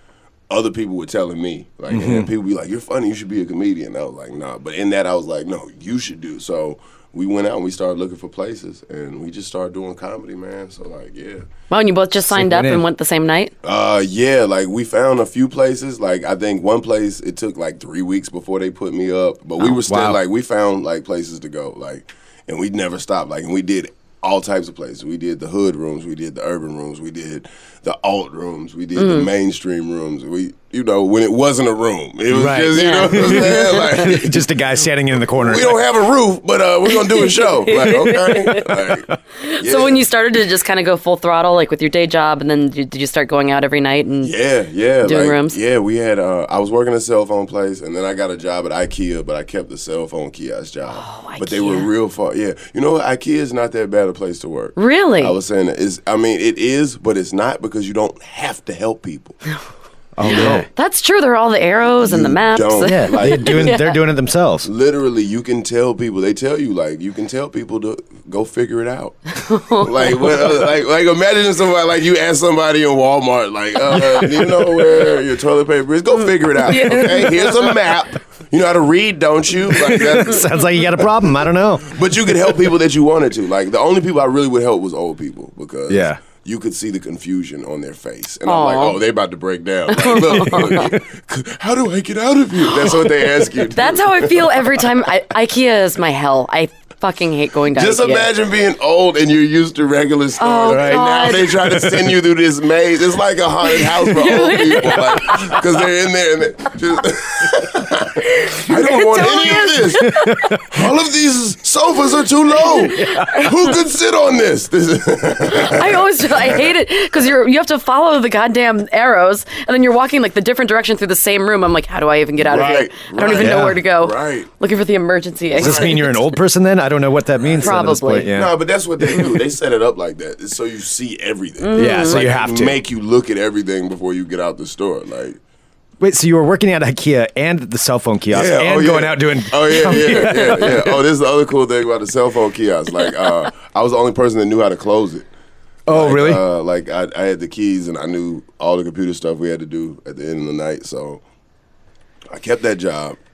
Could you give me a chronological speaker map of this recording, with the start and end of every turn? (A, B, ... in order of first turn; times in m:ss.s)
0:00.5-0:11.4 A
0:01.9-0:02.3 B
0:11.7-0:13.5 C
0:12.3-0:12.8 B
0:13.6-0:34.4 A
0:19.6-0:20.2 B
0:28.9-0:29.3 C
0:32.3-0:35.8 B
0:32.7-0:34.1 C
0:35.3-0:40.0 A
0:36.9-0:38.7 C
0:39.4-0:44.3 C
0:44.2-0:59.4 A
0:45.0-0:45.6 C
0:50.8-0:51.9 C
0:54.8-0:55.3 C
1:00.2-1:00.7 B
1:00.2-1:00.6 A
1:00.2-1:04.0 C
1:01.9-1:03.8 A
1:02.8-1:04.7 B
1:04.6-1:09.2 A
1:09.4-1:10.4 C
1:09.7-1:21.0 A
1:16.2-1:17.8 C
1:19.7-1:21.9 B
1:21.8-1:34.8 A
1:25.9-1:26.2 B
1:28.4-1:29.0 C
1:29.9-1:31.0 C
1:32.6-1:33.0 C
1:33.6-1:38.3 C
1:37.7-1:56.7 A
1:40.4-1:41.6 C
1:40.7-1:42.1 B
1:43.6-1:45.7 C
1:48.2-1:50.5 C
1:50.3-1:50.6 B
1:52.7-1:53.5 C
1:52.9-1:53.4 B
1:55.5-2:06.4 C
2:02.4-2:04.5 A
2:03.3-2:03.8 B
2:05.5-2:08.5 B
2:05.6-2:06.1 A
2:07.4-2:15.4 A
2:07.6-2:08.3 C
2:09.1-2:09.3 C
2:11.6-2:12.3 C
2:11.7-2:12.8 B
2:16.0-2:20.9 B
2:18.3-2:25.3 A
2:20.1-2:20.6 C
2:25.9-2:26.4 B
2:25.9-2:31.2 A
2:32.3-2:33.2 A